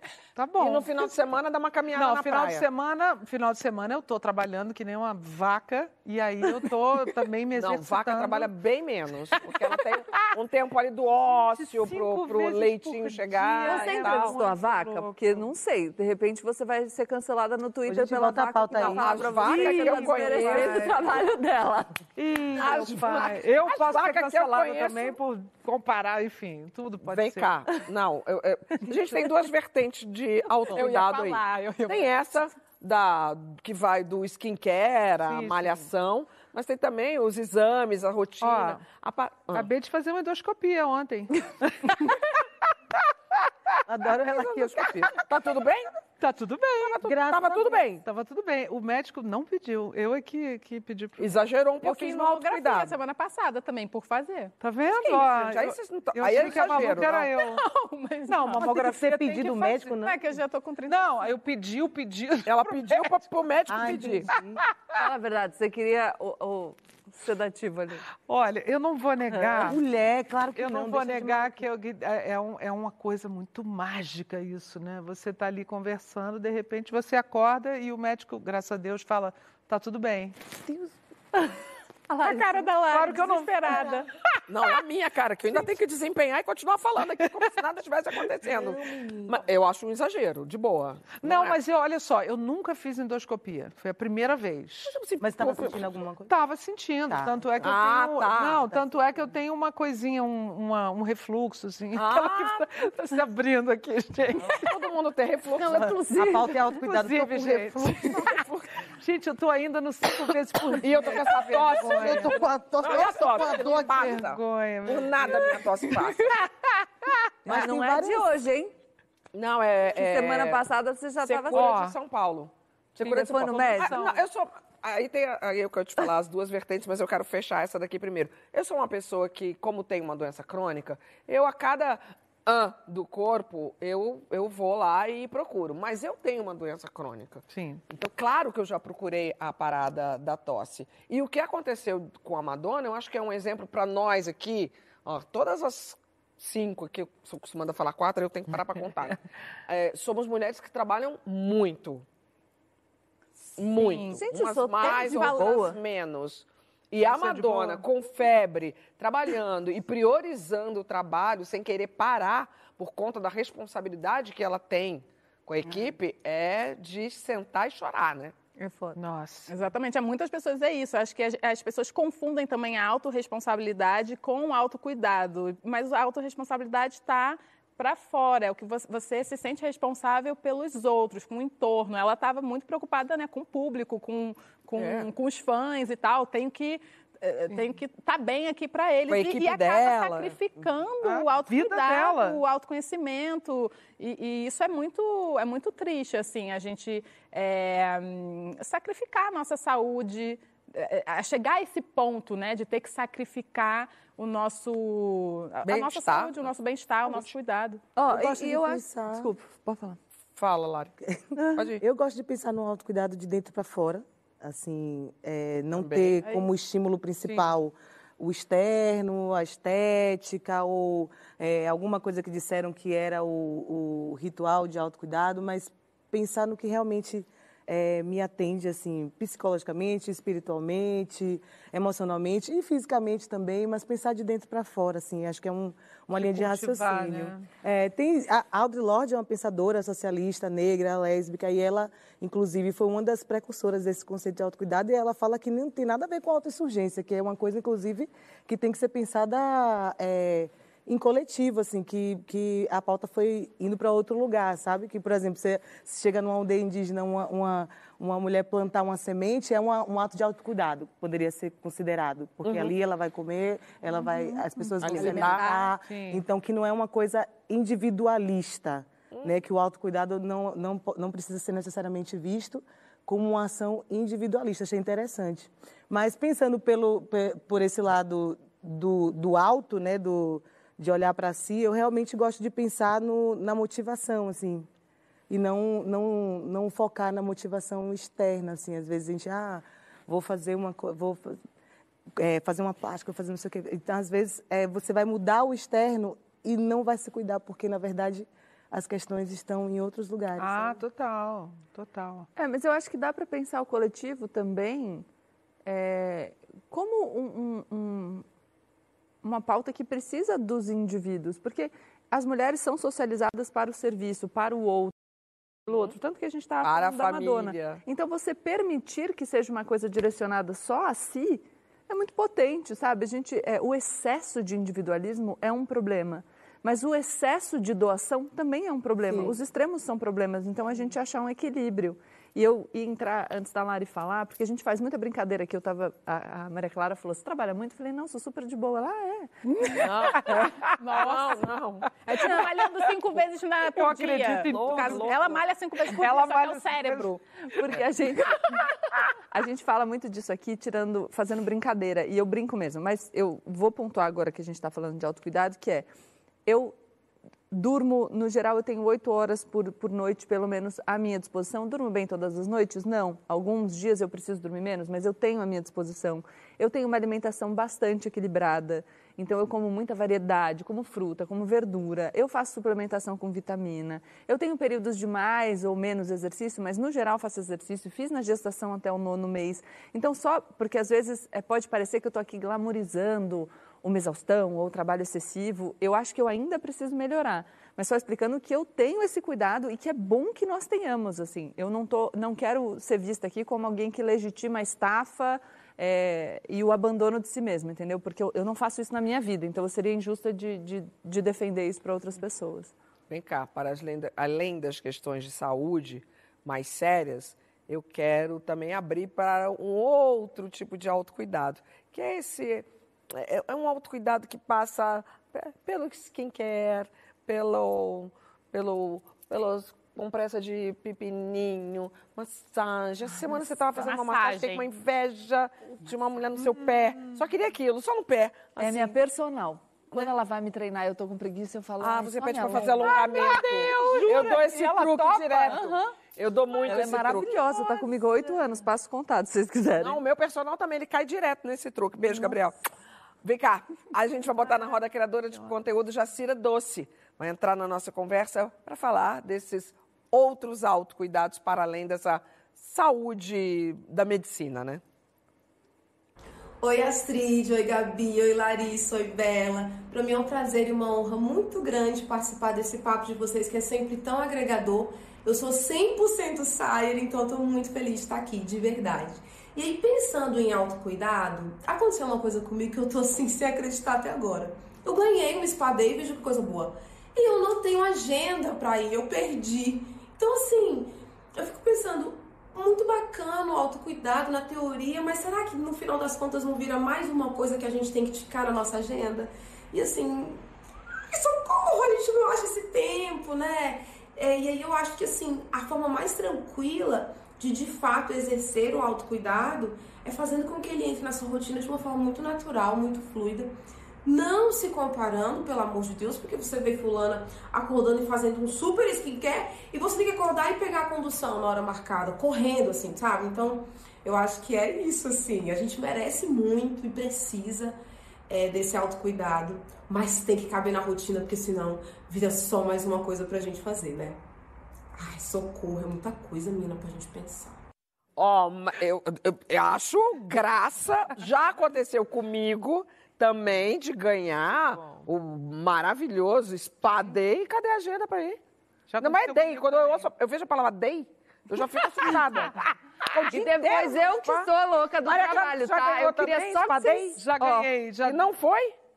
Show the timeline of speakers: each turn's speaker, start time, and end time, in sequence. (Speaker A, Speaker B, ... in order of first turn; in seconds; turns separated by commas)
Speaker A: 0.3-1.1, Speaker B: 0.6-2.6, Speaker A: 1.9-8.5, Speaker B: 7.5-14.4, Speaker A: 9.4-10.3, Speaker A: 11.2-15.5, Speaker C: 13.6-21.9, Speaker D: 17.9-19.0, Speaker B: 18.8-21.2, Speaker A: 19.1-21.2, Speaker A: 22.1-27.8, Speaker B: 22.5-25.2, Speaker B: 27.0-39.7, Speaker A: 28.9-29.3, Speaker E: 30.7-32.1, Speaker A: 35.2-35.9, Speaker A: 38.4-38.8, Speaker A: 39.5-42.3, Speaker D: 43.9-45.0, Speaker B: 44.1-45.9, Speaker A: 46.2-47.0, Speaker B: 46.8-48.0, Speaker D: 47.0-47.8, Speaker A: 48.0-51.3, Speaker B: 51.2-52.9, Speaker E: 51.8-54.5, Speaker A: 54.6-57.6, Speaker B: 55.0-57.3, Speaker E: 57.3-61.4, Speaker A: 58.3-59.5, Speaker D: 58.5-60.2, Speaker A: 60.9-63.2, Speaker B: 62.5-64.3, Speaker D: 63.7-64.6, Speaker A: 64.3-65.0, Speaker C: 64.9-68.0, Speaker A: 68.2-69.8, Speaker D: 69.3-71.6, Speaker A: 70.5-80.3, Speaker E: 82.1-84.1, Speaker A: 82.3-84.0, Speaker D: 83.7-84.0, Speaker B: 84.5-91.6, Speaker D: 88.4-89.4, Speaker A: 91.2-95.0, Speaker B: 94.9-95.9, Speaker D: 95.2-96.3, Speaker A: 96.3-104.8, Speaker D: 97.1-97.4, Speaker B: 97.6-98.7, Speaker B: 101.9-102.7, Speaker B: 104.4-105.9, Speaker C: 105.6-106.6, Speaker D: 105.7-108.2, Speaker A: 106.8-112.5, Speaker B: 108.1-108.7, Speaker B: 110.8-116.4, Speaker D: 111.7-114.1, Speaker A: 113.1-116.4, Speaker D: 117.4-118.3, Speaker C: 117.5-118.7, Speaker B: 119.3-120.6, Speaker C: 119.9-121.8, Speaker E: 121.3-121.8, Speaker B: 121.5-152.0, Speaker A: 121.5-121.9, Speaker C: 123.0-124.0, Speaker A: 123.7-124.2, Speaker A: 137.5-137.8, Speaker B: 153.6-168.3, Speaker E: 153.6-154.2, Speaker C: 154.1-155.8, Speaker E: 154.8-155.8, Speaker A: 157.0-157.8, Speaker E: 168.6-168.9, Speaker A: 168.9-169.5, Speaker E: 169.5-207.8, Speaker B: 184.8-185.1, Speaker B: 189.1-190.3, Speaker A: 191.0-192.4, Speaker B: 205.6-206.5, Speaker C: 207.9-210.0, Speaker D: 208.1-209.3, Speaker B: 210.3-210.9, Speaker B: 211.5-211.8, Speaker D: 211.8-284.7, Speaker B: 215.8-216.2, Speaker A: 236.2-237.4, Speaker B: 262.4-262.7, Speaker C: 264.2-265.7, Speaker B: 264.9-265.5, Speaker A: 265.8-266.2, Speaker D: 285.3-291.4, Speaker D: 292.1-300.8, Speaker A: 300.4-302.3, Speaker C: 302.4-305.1, Speaker C: 305.6-308.2, Speaker C: 309.2-314.9, Speaker C: 315.7-339.3, Speaker B: 316.6-317.8, Speaker E: 339.4-341.5, Speaker B: 339.8-342.5, Speaker A: 339.8-340.7, Speaker E: 342.0-347.2, Speaker A: 343.7-345.2, Speaker B: 344.2-345.4, Speaker A: 345.8-347.1, Speaker C: 347.5-348.6, Speaker C: 349.3-355.9, Speaker C: 356.4-356.8, Speaker C: 357.5-402.7, Speaker B: 403.1-429.0, Speaker E: 423.5-424.7, Speaker A: 426.4-427.2, Speaker C: 428.6-433.2, Speaker B: 431.8-437.3, Speaker E: 432.7-435.8, Speaker A: 432.9-434.5, Speaker C: 435.5-435.8, Speaker C: 436.6-440.0, Speaker B: 439.8-442.6, Speaker B: 443.2-454.8, Speaker F: 456.6-490.4, Speaker F: 491.1-524.2, Speaker F: 525.0-527.6, Speaker B: 528.2-538.4, Speaker A: 534.8-535.0, Speaker A: 538.9-540.1, Speaker B: 539.0-542.5, Speaker B: 543.1-544.5, Speaker C: 543.2-547.2, Speaker B: 545.0-548.7, Speaker A: 547.1-548.3